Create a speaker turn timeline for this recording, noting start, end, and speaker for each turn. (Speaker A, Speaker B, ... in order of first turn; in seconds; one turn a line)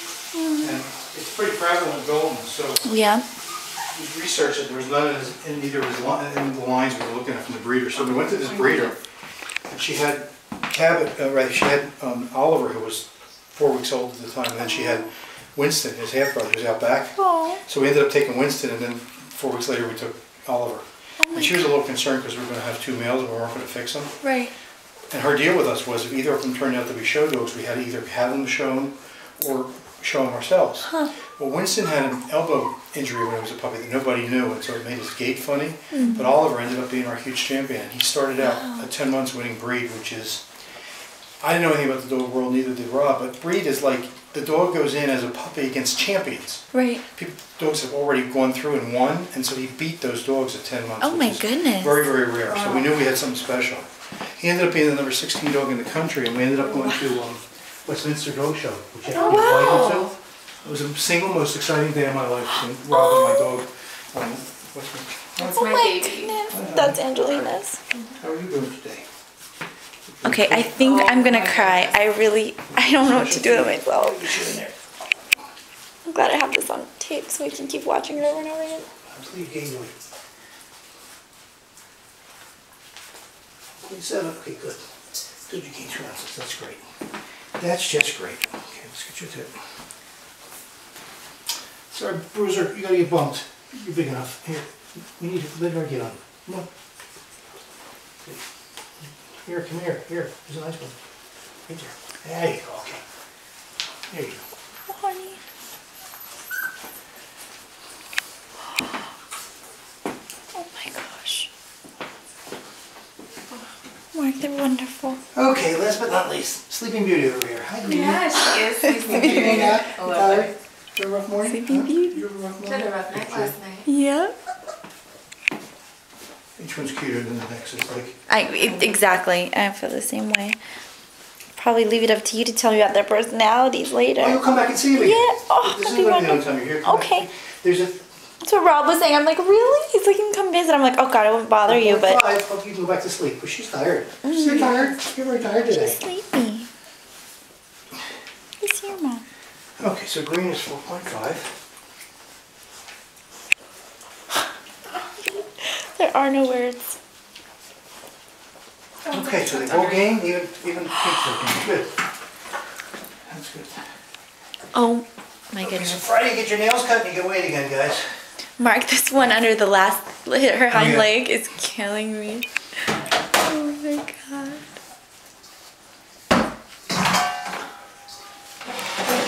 Speaker A: 0.3-0.8
Speaker B: 0.6-2.9
Speaker A: 2.8-3.2
Speaker B: 3.9-9.0
Speaker C: 8.2-8.9
Speaker B: 9.7-24.1
Speaker A: 14.7-15.1
Speaker A: 17.2-17.6
Speaker A: 21.2-21.7
Speaker A: 24.2-24.5
Speaker B: 25.1-40.4
Speaker A: 35.9-36.3
Speaker A: 38.4-38.9
Speaker B: 41.4-65.6
Speaker A: 46.7-47.0
Speaker A: 51.0-52.0
Speaker C: 52.5-52.9
Speaker A: 56.7-57.1
Speaker C: 59.1-60.1
Speaker A: 59.1-60.0
Speaker A: 62.9-63.5
Speaker C: 65.4-66.4
Speaker A: 65.4-67.8
Speaker B: 66.5-67.5
Speaker B: 68.1-69.1
Speaker B: 70.1-70.8
Speaker A: 70.2-74.5
Speaker C: 70.8-72.0
Speaker B: 72.8-74.8
Speaker A: 76.1-78.9
Speaker B: 79.0-79.9
Speaker B: 83.8-84.8
Speaker B: 85.5-86.8
Speaker B: 87.6-89.5
Speaker B: 91.9-96.7
Speaker B: 99.0-101.0
Speaker B: 101.7-103.0
Speaker B: 104.1-104.4
Speaker A: 104.9-105.4
Speaker A: 110.5-111.5
Speaker A: 114.1-115.2
Speaker B: 115.3-123.5
Speaker C: 117.8-120.5
Speaker A: 118.8-119.7
Speaker A: 121.4-122.2
Speaker C: 122.6-123.9
Speaker A: 123.8-124.3
Speaker B: 126.6-128.2
Speaker A: 128.3-130.6
Speaker C: 128.6-129.0
Speaker A: 131.6-134.4
Speaker B: 134.2-138.1
Speaker A: 134.9-137.3
Speaker A: 138.4-142.3
Speaker B: 141.6-146.0
Speaker A: 144.2-145.0
Speaker A: 145.6-146.7
Speaker A: 148.6-149.2
Speaker B: 149.8-151.5
Speaker A: 155.2-157.0
Speaker C: 159.0-160.1
Speaker B: 159.1-161.9
Speaker B: 163.3-163.8
Speaker A: 164.7-166.0
Speaker B: 165.6-168.2
Speaker A: 168.6-172.4
Speaker B: 170.7-171.1
Speaker A: 173.3-174.6